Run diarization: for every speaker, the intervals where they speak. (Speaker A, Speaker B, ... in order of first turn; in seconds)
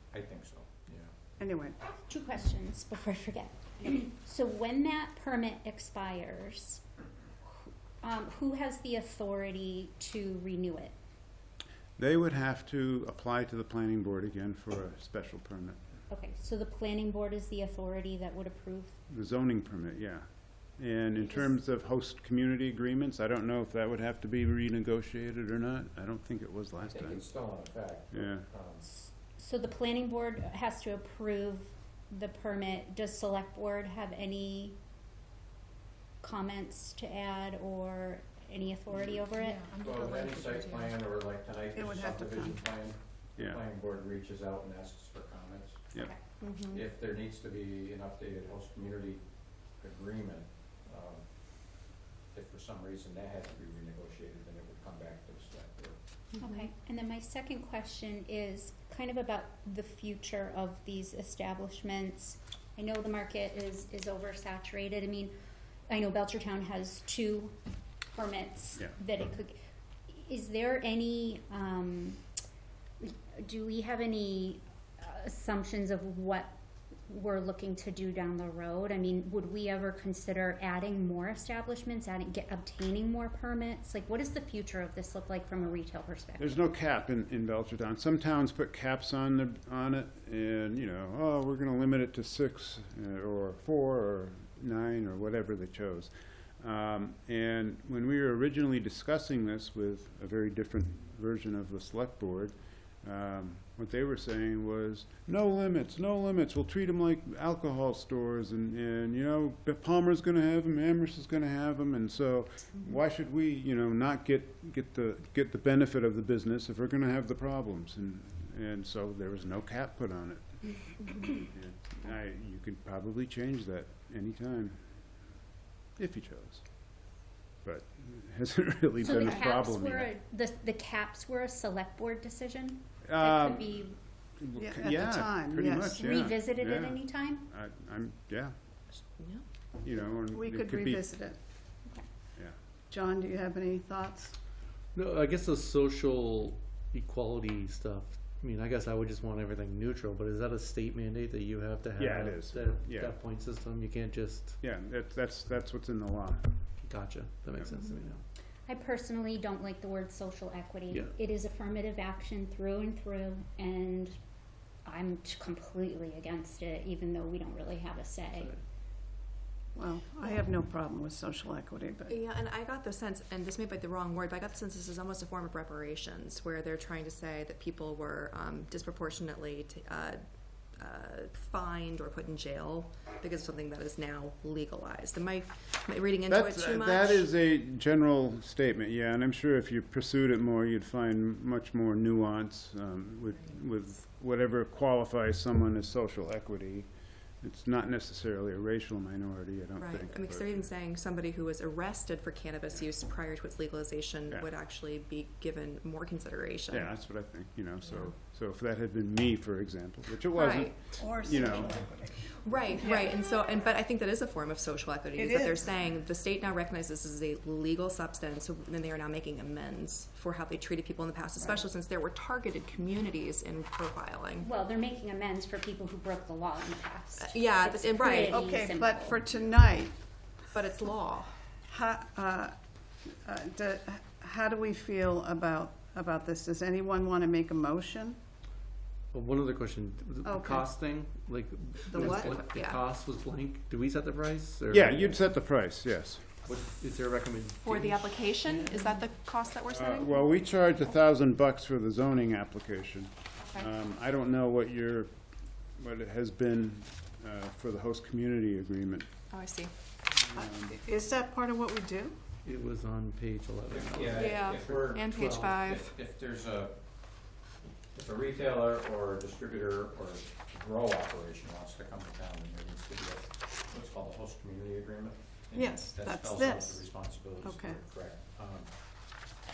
Speaker A: 0.1-1.1, 26.9-28.9, 39.7-49.2, 49.7-56.0, 263.7-267.1, 267.9-279.2
Speaker B: 1.4-1.8, 39.4-41.0, 41.7-42.6, 134.6-136.0, 140.3-141.4, 142.9-144.3, 169.7-172.2, 211.0-213.1, 215.2-215.7, 228.3-229.9, 231.7-232.6, 233.1-238.2, 240.2-240.7, 241.9-242.3, 260.3-262.1, 275.5-277.8
Speaker C: 2.1-6.8, 8.0-10.9, 16.1-19.0, 28.9-34.8, 36.2-39.7, 45.9-46.2, 56.4-65.3, 65.9-67.5, 68.1-69.5, 70.1-72.2, 73.0-76.5, 77.1-86.6, 129.0-133.9, 135.8-137.5, 158.7-164.1, 164.8-168.6, 224.4-229.2
Speaker D: 12.0-15.8, 19.1-20.3, 20.8-27.2, 28.1-28.5, 86.4-120.6, 121.2-124.8, 126.0-126.6, 127.6-130.1, 133.0-133.9, 134.4-138.5, 139.8-141.0, 152.0-153.1, 154.6-156.6, 186.3-196.9, 197.4-200.7, 206.7-211.8, 244.7-246.2, 249.7-255.1, 255.8-259.1, 260.2-260.8
Speaker E: 46.4-46.8, 56.4-56.7, 139.1-139.4, 157.7-157.9, 172.1-187.3, 199.8-206.9, 210.3-210.7, 212.4-224.5, 227.2-228.4, 230.5-231.3, 242.1-242.8, 247.6-250.2, 253.4-253.6, 259.3-259.7, 264.1-265.9
Speaker F: 144.9-154.6, 156.8-158.2, 160.9-161.2, 168.3-168.6, 239.1-245.3, 246.4-249.1, 262.4-265.7